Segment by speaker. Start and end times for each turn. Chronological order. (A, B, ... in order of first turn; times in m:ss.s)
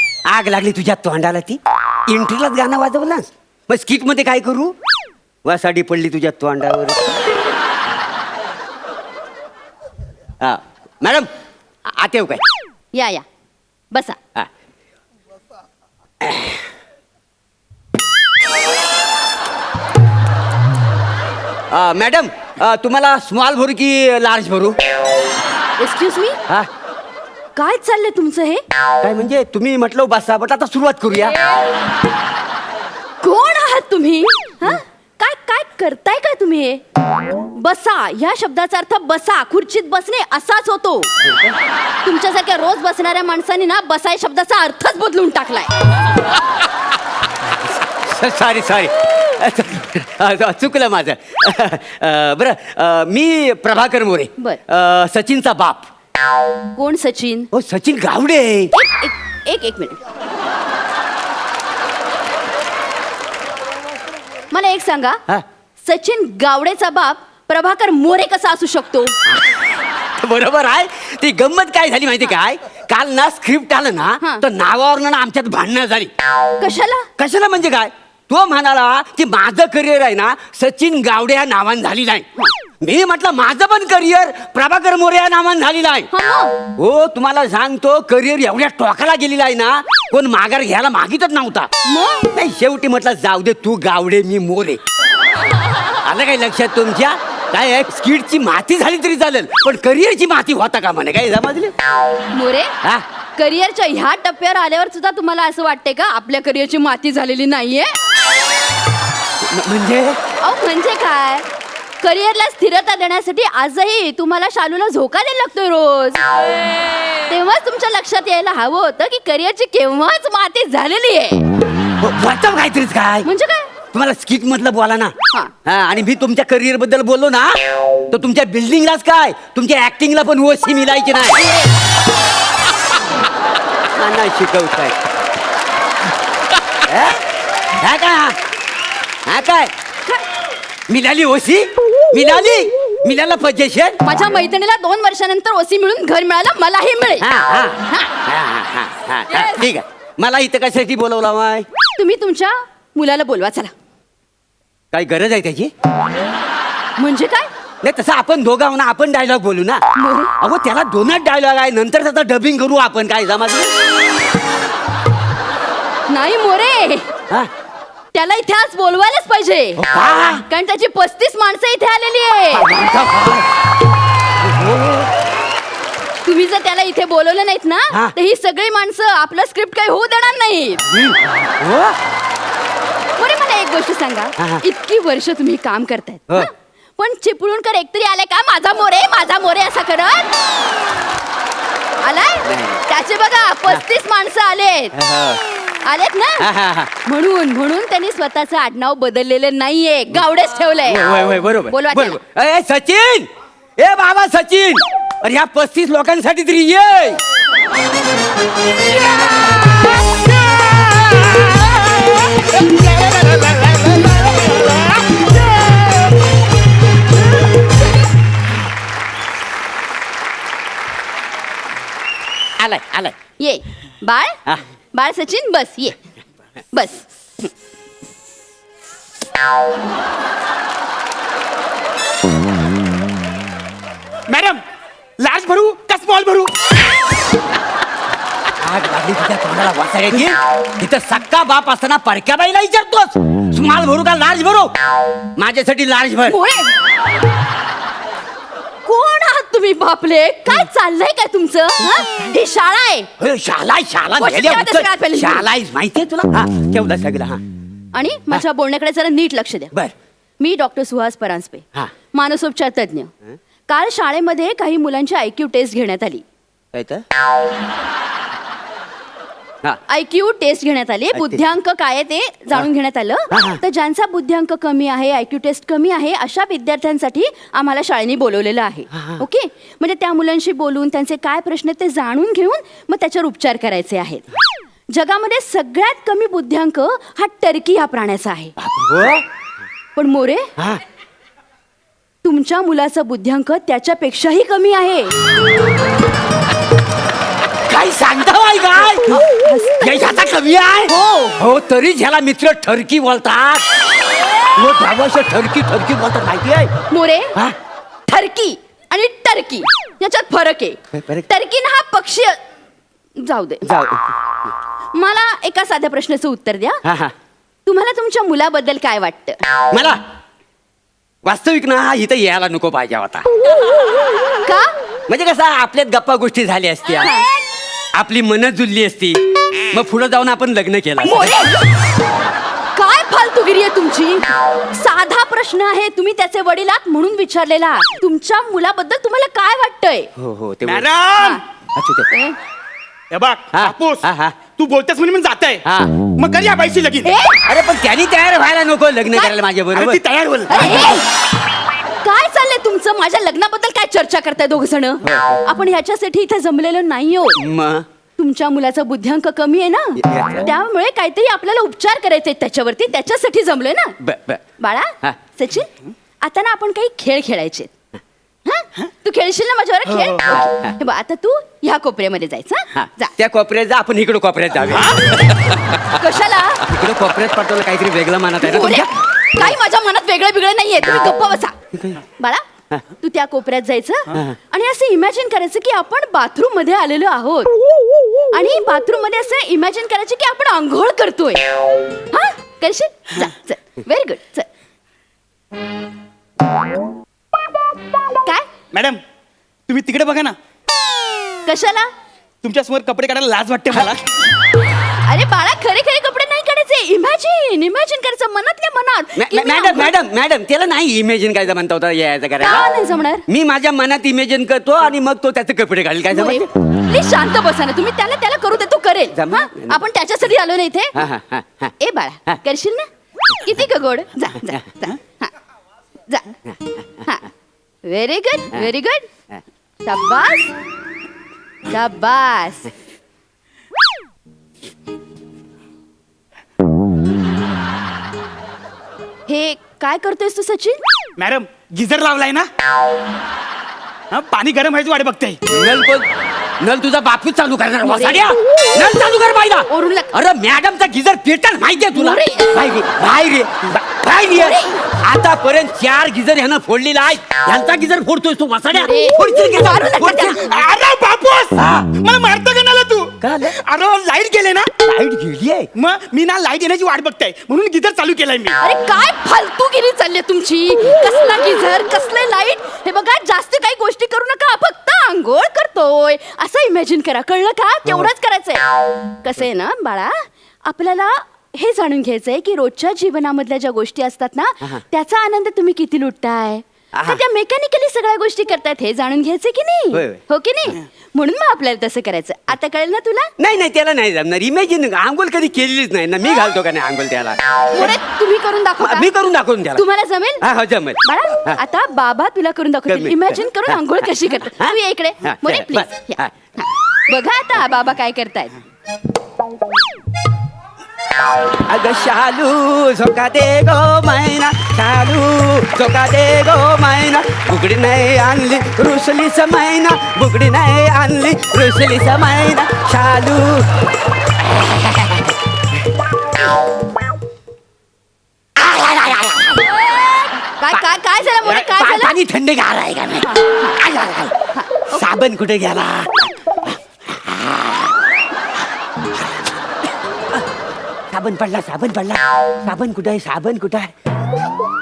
0:00.2-0:04.7 A
0:05.4-0:07.0 A
0:10.4-0:11.3 A
0:11.9-0:12.4 A
0:12.9-0:13.2 B
0:13.9-0:14.2 B
0:16.2-0:16.6 A
0:21.7-0:24.8 A
0:25.8-0:26.4 B
0:27.5-0:28.6 B
0:29.0-0:31.4 A
0:33.2-0:36.8 B
0:37.5-0:41.1 B
0:41.2-0:41.5 A
0:42.0-0:45.7 B
0:47.8-0:55.9 A
0:56.7-0:57.5 B
0:57.5-0:58.7 A
0:58.7-1:00.0 B
1:04.5-1:05.2 B
1:05.8-1:09.1 B
1:09.3-1:09.6 A
1:10.2-1:16.1 A
1:16.6-1:17.1 B
1:17.2-1:22.2 A
1:22.8-1:26.1 A
1:26.1-1:26.6 B
1:26.7-1:31.7 A
1:31.8-1:32.3 B
1:32.3-1:34.8 A
1:35.9-1:41.7 A
1:42.3-1:42.7 B
1:43.4-1:48.0 B
1:49.4-1:50.2 A
1:50.4-1:51.4 B
1:52.0-1:56.2 B
1:57.3-2:01.4 B
2:02.0-2:03.3 A
2:03.2-2:03.7 B
2:03.9-2:11.5 A
2:11.4-2:11.7 B
2:13.9-2:15.0 A
2:16.8-2:18.4 A
2:19.2-2:19.7 A
2:20.9-2:24.0 A
2:24.0-2:27.3 B
2:27.2-2:31.7 A
2:29.3-2:29.6 B
2:32.0-2:33.7 B
2:34.9-2:35.7 A
2:37.0-2:37.5 B
2:37.8-2:39.8 A
2:39.9-2:40.3 B
2:40.4-2:43.7 A
2:46.1-2:47.1 B
2:48.1-2:49.8 B
2:49.8-2:50.4 A
2:50.5-2:52.7 B
2:52.5-2:53.5 A
2:54.4-2:55.1 A
2:56.2-3:00.8 B
3:00.9-3:02.0 A
3:03.2-3:10.4 B
3:04.4-3:04.6 A
3:12.0-3:14.9 B
3:12.4-3:12.8 A
3:14.9-3:15.4 A
3:15.8-3:16.5 B
3:16.4-3:16.9 A
3:17.0-3:21.0 B
3:20.9-3:27.2 A
3:21.7-3:22.2 B
3:30.4-3:35.2 A
3:42.6-3:43.1 A
3:43.4-3:44.4 B
3:44.9-3:46.0 B
3:46.7-3:47.5 B
3:54.3-3:54.6 C
3:55.2-3:56.5 C
3:58.6-4:04.7 A
4:05.4-4:06.4 A
4:06.3-4:06.7 B
4:08.8-4:13.1 B
4:13.2-4:17.4 A
4:14.2-4:15.4 B
4:17.9-4:19.7 B
4:20.4-4:23.1 B
4:23.7-4:26.2 B
4:26.7-4:27.0 A
4:29.9-4:44.2 B
4:31.1-4:31.4 A
4:33.3-4:33.6 A
4:38.9-4:39.2 A
4:44.9-4:48.5 B
4:48.6-4:49.2 A
4:50.0-4:50.5 B
4:52.2-4:55.2 B
4:57.6-4:59.2 A
4:59.1-5:00.3 B
4:59.8-5:03.6 A
5:00.9-5:01.4 B
5:04.5-5:06.7 A
5:06.9-5:07.4 B
5:08.1-5:12.4 B
5:10.9-5:11.3 A
5:13.2-5:13.7 B
5:13.6-5:14.3 A
5:14.9-5:16.8 B
5:16.8-5:17.1 A
5:17.6-5:19.4 B
5:19.7-5:20.0 A
5:21.2-5:23.3 A
5:24.4-5:24.7 B
5:25.1-5:27.1 A
5:27.0-5:27.4 B
5:27.9-5:31.3 A
5:31.0-5:31.7 B
5:32.7-5:40.1 B
5:40.2-5:40.9 A
5:40.6-5:41.4 C
5:41.2-5:41.4 B
5:41.7-5:42.1 A
5:42.1-5:42.4 B
5:43.1-5:45.6 C
5:43.5-5:44.4 A
5:45.6-5:45.9 A
5:46.2-5:47.1 C
5:47.0-5:47.4 B
5:47.4-5:50.9 A
5:49.1-5:49.4 B
5:49.7-5:50.7 C
5:50.5-5:51.0 B
5:52.0-5:57.4 B
5:55.0-5:55.4 A
5:57.4-5:57.8 A
5:58.2-6:04.0 B
6:00.0-6:00.5 A
6:04.0-6:04.4 A
6:04.6-6:05.7 B
6:06.2-6:07.7 B
6:08.4-6:13.1 B
6:09.9-6:10.4 C
6:10.3-6:10.7 A
6:12.7-6:16.0 A
6:14.7-6:15.3 C
6:15.9-6:16.6 B
6:16.6-6:19.5 A
6:18.4-6:21.5 B
6:22.2-6:22.4 B
6:23.0-6:27.5 B
6:28.3-6:31.4 B
6:32.1-6:34.5 B
6:38.7-6:39.0 C
6:39.7-6:40.4 C
6:41.4-6:41.9 B
6:42.4-6:44.0 C
6:45.0-6:49.9 B
6:49.2-6:52.7 A
6:52.4-6:53.2 B
6:53.3-6:56.5 A
6:56.1-7:01.0 B
6:59.1-6:59.8 A
7:00.9-7:01.7 A
7:01.8-7:05.3 B
7:04.4-7:04.6 A
7:06.1-7:06.4 B
7:06.5-7:06.8 A
7:07.0-7:07.3 B
7:07.8-7:09.1 B
7:09.8-7:10.5 B
7:11.7-7:12.7 B
7:19.3-7:20.8 B
7:21.2-7:22.5 C
7:24.1-7:25.4 C
7:25.5-7:26.1 A
7:26.6-7:40.4 A
7:27.8-7:28.3 B
7:29.7-7:30.1 B
7:31.9-7:32.6 B
7:34.3-7:34.8 B
7:38.7-7:40.6 B
7:40.0-7:44.7 C
7:41.6-7:41.9 A
7:43.2-7:43.6 A
7:44.8-7:45.7 A
7:45.7-7:48.6 C
7:48.6-7:58.6 B
7:59.2-8:13.3 B
8:06.9-8:07.2 A
8:09.9-8:10.2 A
8:13.4-8:18.0 A
8:17.7-8:19.1 B
8:18.8-8:19.8 A
8:19.7-8:20.5 B
8:20.4-8:21.6 A
8:21.0-8:28.6 B
8:22.9-8:26.5 A
8:31.5-8:43.7 A
8:44.4-8:45.3 A
8:48.6-8:49.7 A
8:49.8-8:52.2 B
8:51.4-8:54.4 A
8:53.2-8:53.8 B
8:54.6-8:55.0 B
8:54.9-8:58.0 A
9:01.1-9:03.9 A